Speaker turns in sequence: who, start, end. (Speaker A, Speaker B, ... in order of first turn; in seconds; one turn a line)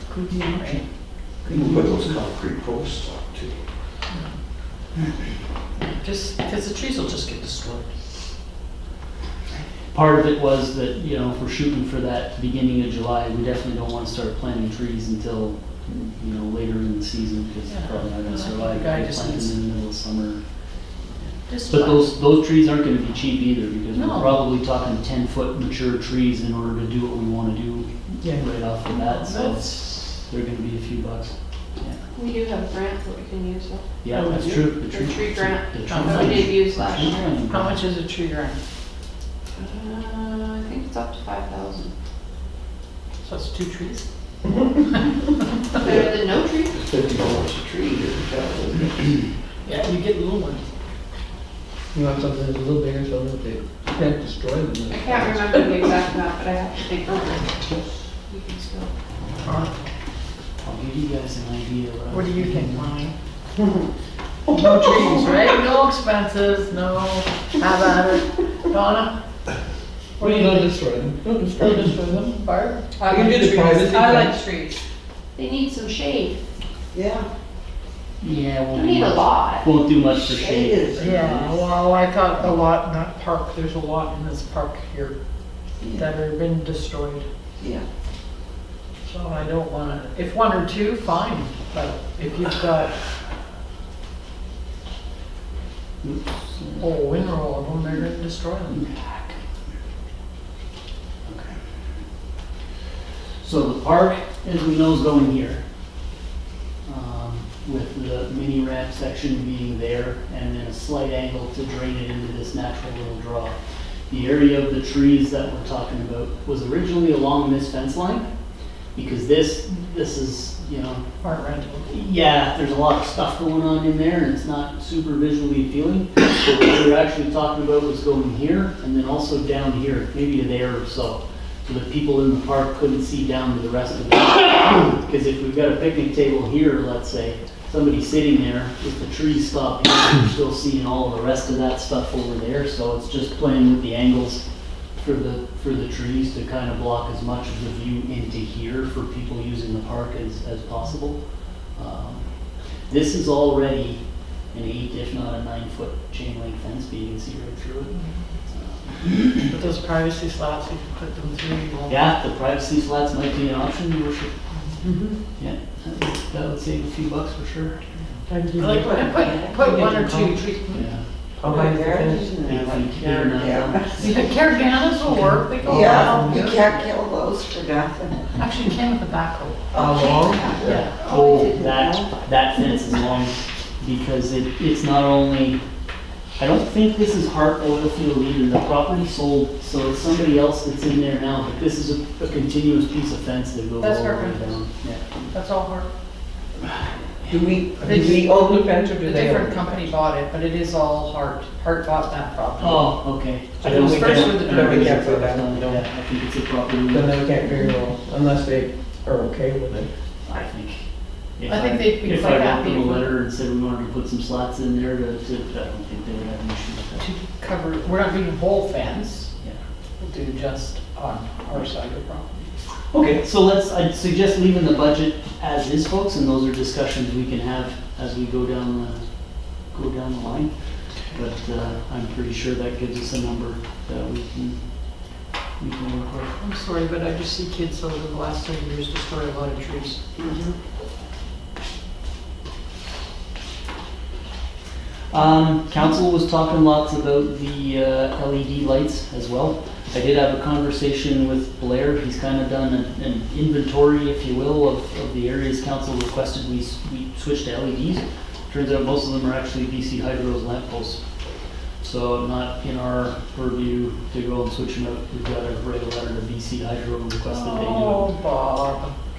Speaker A: 0.4-0.8
Speaker B: 1.5-3.6
Speaker A: 5.8-7.9
Speaker C: 9.9-20.4
Speaker A: 17.7-19.5
Speaker C: 21.3-32.0
Speaker A: 21.5-22.0
Speaker A: 23.9-24.4
Speaker A: 29.3-29.8
Speaker D: 32.1-33.9
Speaker C: 34.0-37.8
Speaker E: 34.1-34.4
Speaker D: 34.8-37.3
Speaker A: 35.9-36.4
Speaker A: 37.5-38.6
Speaker D: 39.6-41.9
Speaker A: 43.2-44.0
Speaker D: 45.7-46.7
Speaker B: 46.7-48.9
Speaker A: 49.6-50.6
Speaker E: 51.9-55.9
Speaker D: 54.9-57.5
Speaker D: 58.2-58.9
Speaker A: 59.5-59.8
Speaker C: 60.6-62.9
Speaker A: 62.1-63.1
Speaker A: 64.5-69.1
Speaker A: 70.2-70.8
Speaker E: 70.2-71.9
Speaker A: 71.4-74.8
Speaker E: 73.0-74.4
Speaker D: 75.3-76.4
Speaker F: 76.9-77.3
Speaker C: 78.2-81.4
Speaker D: 78.7-79.7
Speaker F: 80.2-81.6
Speaker A: 81.0-85.1
Speaker F: 85.8-86.1
Speaker A: 86.0-87.2
Speaker F: 87.6-87.8
Speaker A: 89.0-92.9
Speaker C: 96.0-96.9
Speaker A: 96.8-98.8
Speaker C: 98.7-99.4
Speaker C: 101.2-101.6
Speaker C: 103.4-105.6
Speaker C: 106.8-113.5
Speaker C: 114.1-118.3
Speaker C: 118.9-121.0
Speaker A: 121.2-121.9
Speaker C: 121.9-144.4
Speaker C: 145.0-152.3
Speaker C: 152.9-157.9
Speaker C: 158.5-159.5
Speaker A: 159.5-162.0
Speaker C: 161.9-164.3
Speaker C: 165.4-167.8
Speaker A: 168.4-170.9
Speaker F: 168.7-169.5
Speaker E: 169.8-170.4
Speaker C: 170.7-171.0
Speaker E: 171.4-172.2
Speaker F: 171.4-174.1
Speaker C: 172.5-173.8
Speaker A: 174.0-176.7
Speaker F: 175.6-178.3
Speaker E: 175.7-176.4
Speaker A: 178.3-179.8
Speaker E: 179.7-180.8
Speaker F: 179.7-182.1
Speaker C: 180.7-185.6
Speaker C: 186.4-195.2
Speaker A: 193.8-194.6
Speaker A: 195.3-195.9
Speaker E: 197.3-199.6
Speaker B: 197.8-198.6
Speaker A: 197.8-198.4
Speaker A: 199.0-202.9
Speaker C: 202.6-207.2
Speaker E: 203.6-205.2
Speaker B: 204.7-205.8
Speaker E: 206.9-209.9
Speaker C: 210.2-217.1
Speaker A: 211.5-213.1
Speaker A: 217.0-219.3
Speaker A: 220.0-222.5
Speaker C: 222.9-230.6
Speaker C: 231.1-236.4
Speaker A: 236.4-240.0
Speaker C: 245.1-261.0
Speaker C: 261.8-268.1
Speaker A: 267.3-268.9